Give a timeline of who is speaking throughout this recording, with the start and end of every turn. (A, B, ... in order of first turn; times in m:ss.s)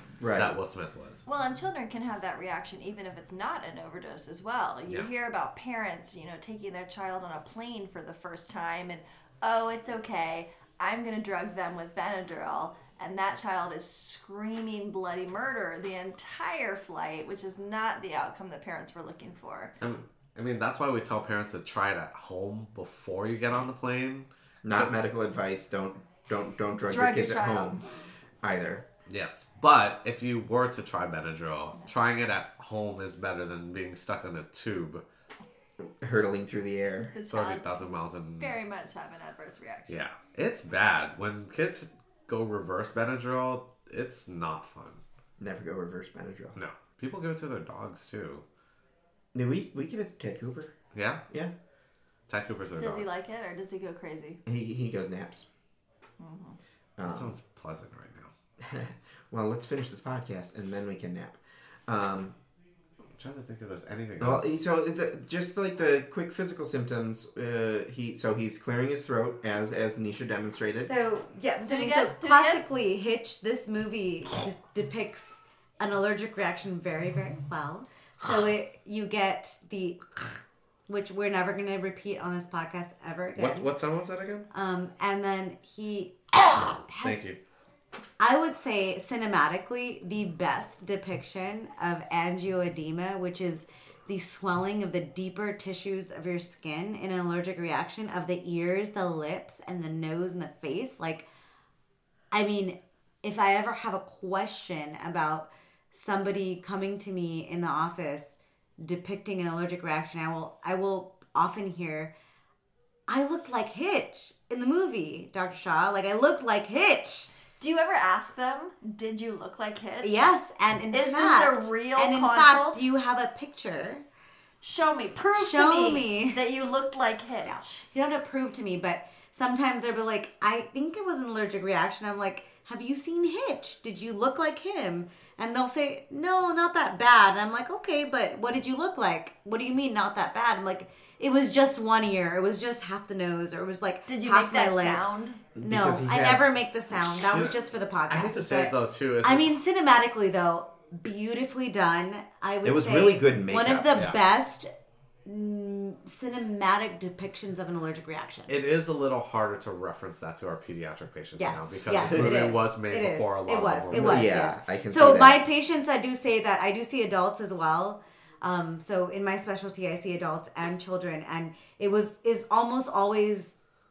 0:00.2-0:00.5 A
0:00.4-0:01.2 B
0:01.3-0:19.8 C
0:19.8-0:24.9 B
0:24.6-0:27.8 A
0:26.9-0:27.8 C
0:28.4-0:28.9 A
0:29.1-0:35.0 B
0:36.0-0:37.1 A
0:37.1-0:40.0 C
0:37.3-0:38.6 B
0:39.9-0:45.0 B
0:45.4-0:46.6 A
0:46.6-0:48.4 B
0:49.3-0:50.8 A
0:50.9-0:51.2 B
0:52.3-0:53.1 B
0:52.8-0:54.4 C
0:54.5-0:55.5 A
0:56.2-0:56.6 C
0:57.0-0:57.4 A
0:57.0-0:58.3 B
0:58.6-1:02.4 A
1:03.2-1:04.6 B
1:04.2-1:10.9 A
1:10.8-1:23.7 D
1:11.6-1:12.6 C
1:23.4-1:24.5 B
1:24.5-1:27.2 D
1:27.0-1:27.4 B
1:28.2-1:41.3 D
1:42.3-1:52.1 D
1:53.1-1:57.3 D
1:57.6-2:00.3 C
2:00.0-2:04.0 D
2:00.9-2:02.8 C
2:04.6-2:07.9 C
2:05.2-2:06.4 D
2:07.9-2:25.0 D
2:24.1-2:25.4 C
2:25.6-2:26.5 A
2:25.6-2:34.7 D
2:28.1-2:29.6 B
2:32.6-2:34.0 A
2:33.9-2:34.2 B
2:35.2-2:38.5 D
2:38.5-2:44.3 B
2:41.4-2:53.6 D
2:43.9-2:45.4 A